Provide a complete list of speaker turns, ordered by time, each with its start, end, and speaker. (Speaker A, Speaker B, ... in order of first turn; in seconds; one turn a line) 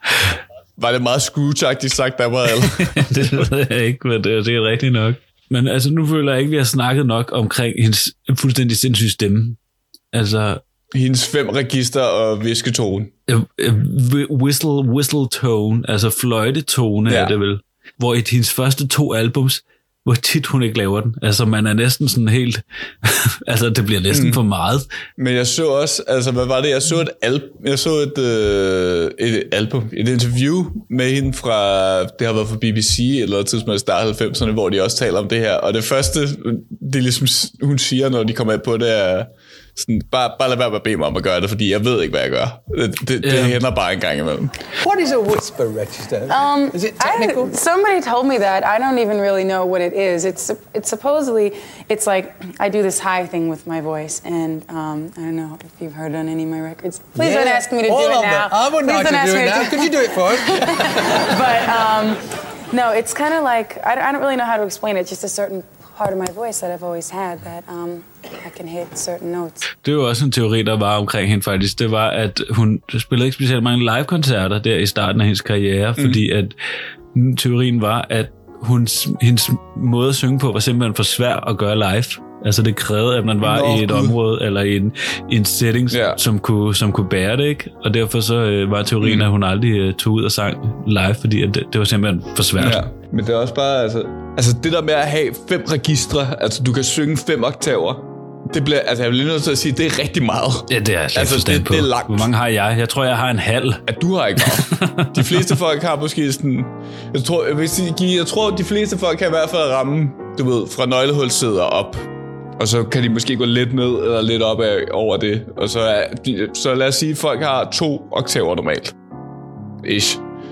Speaker A: 0.8-3.5
Speaker B: 2.6-9.6
Speaker B: 10.1-10.6
Speaker A: 10.9-13.1
Speaker B: 13.3-24.9
Speaker A: 17.1-17.3
Speaker A: 24.1-24.4
Speaker A: 25.2-44.6
Speaker B: 43.2-43.6
Speaker C: 44.8-47.5
Speaker D: 46.3-69.7
Speaker C: 57.1-61.2
Speaker B: 69.8-76.5
Speaker B: 77.1-92.8
Speaker A: 83.4-84.1
Speaker A: 85.9-86.2
Speaker A: 92.6-102.3
Speaker B: 100.7-103.8
Speaker A: 103.9-118.9
Speaker B: 104.4-105.5
Speaker A: 119.8-120.2